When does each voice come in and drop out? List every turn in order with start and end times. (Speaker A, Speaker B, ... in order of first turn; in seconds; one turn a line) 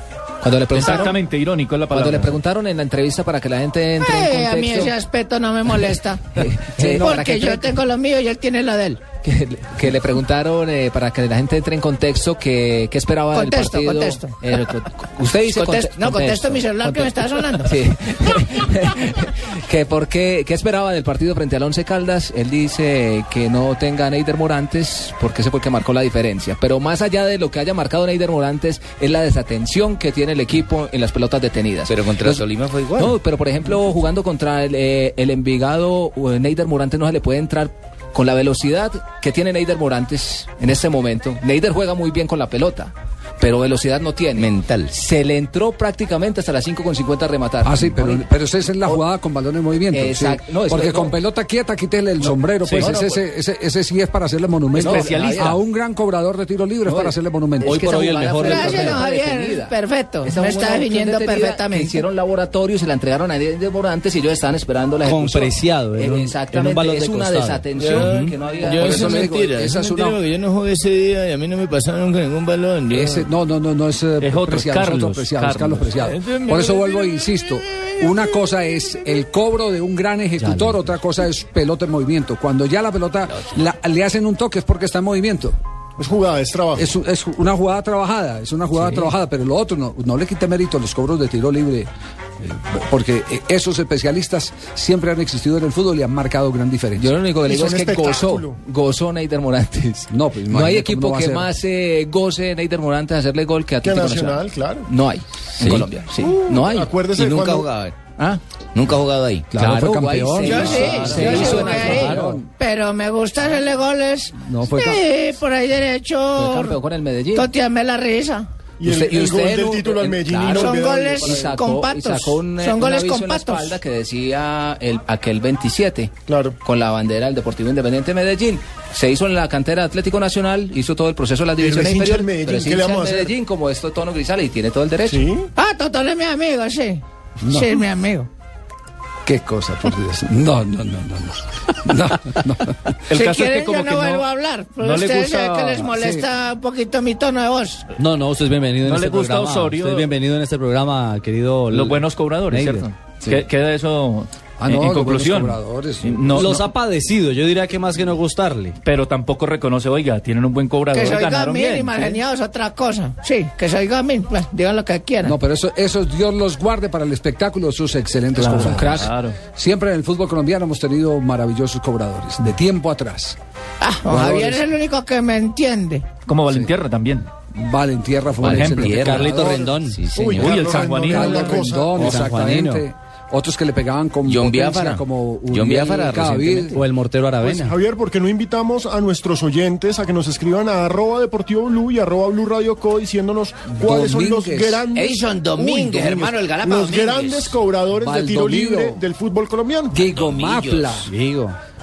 Speaker A: 0.4-1.1
Speaker B: 0.7-2.3
Speaker A: 1.9-4.9
Speaker C: 4.0-9.0
Speaker A: 6.4-7.8
Speaker A: 9.2-32.4
Speaker C: 13.3-14.4
Speaker C: 15.3-17.8
Speaker D: 31.9-33.1
Speaker A: 33.0-48.3
Speaker D: 44.4-44.9
Speaker E: 47.6-57.8
Speaker A: 49.9-51.2
Speaker B: 52.6-53.0
Speaker A: 52.8-53.2
Speaker B: 54.7-55.5
Speaker A: 54.8-55.6
Speaker A: 56.8-69.2
Speaker F: 57.6-58.9
Speaker C: 58.4-62.0
Speaker F: 65.0-67.6
Speaker E: 68.7-70.2
Speaker D: 72.2-72.8
Speaker E: 72.9-85.6
Speaker B: 74.2-76.4
Speaker G: 86.0-86.9
Speaker E: 86.7-97.1
Speaker A: 88.8-89.1
Speaker A: 97.0-106.9
Speaker G: 97.4-98.6
Speaker E: 100.1-101.5
Speaker G: 103.8-104.9
Speaker D: 105.6-105.9
Speaker G: 106.2-107.7
Speaker D: 107.1-108.0
Speaker A: 108.2-108.4
Speaker D: 108.7-109.5
Speaker A: 109.5-112.1
Speaker E: 109.5-112.5
Speaker C: 110.4-116.8
Speaker E: 114.4-115.0
Speaker A: 116.3-117.5
Speaker C: 117.3-118.5
Speaker G: 118.8-121.3
Speaker A: 118.8-135.3
Speaker C: 120.5-123.8
Speaker G: 126.3-126.5
Speaker G: 131.6-133.3
Speaker G: 135.1-135.5
Speaker C: 135.6-138.3
Speaker E: 137.4-137.8
Speaker E: 139.2-143.0
Speaker B: 143.1-145.9
Speaker C: 143.1-147.9
Speaker E: 145.9-146.2
Speaker F: 148.0-152.0
Speaker B: 148.8-150.2
Speaker B: 151.7-156.6
Speaker F: 152.5-152.9
Speaker E: 154.6-156.6
Speaker F: 156.3-158.8
Speaker B: 158.8-162.2
Speaker C: 160.9-165.4
Speaker E: 165.2-173.4
Speaker B: 168.3-169.4
Speaker A: 168.6-169.1
Speaker C: 173.8-176.1
Speaker E: 174.1-174.6
Speaker B: 176.2-177.3
Speaker E: 177.5-179.7
Speaker D: 178.4-179.2
Speaker B: 178.4-179.3
Speaker F: 179.0-180.0
Speaker G: 179.3-182.1
Speaker D: 179.9-180.6
Speaker B: 180.3-181.7
Speaker E: 181.1-186.8
Speaker F: 181.9-182.8
Speaker D: 184.2-186.9
Speaker F: 186.8-187.8
Speaker G: 187.4-200.0
Speaker E: 193.7-194.8
Speaker D: 194.9-197.6
Speaker E: 198.0-199.0
Speaker E: 199.9-201.1
Speaker D: 200.1-201.1
Speaker F: 201.1-201.6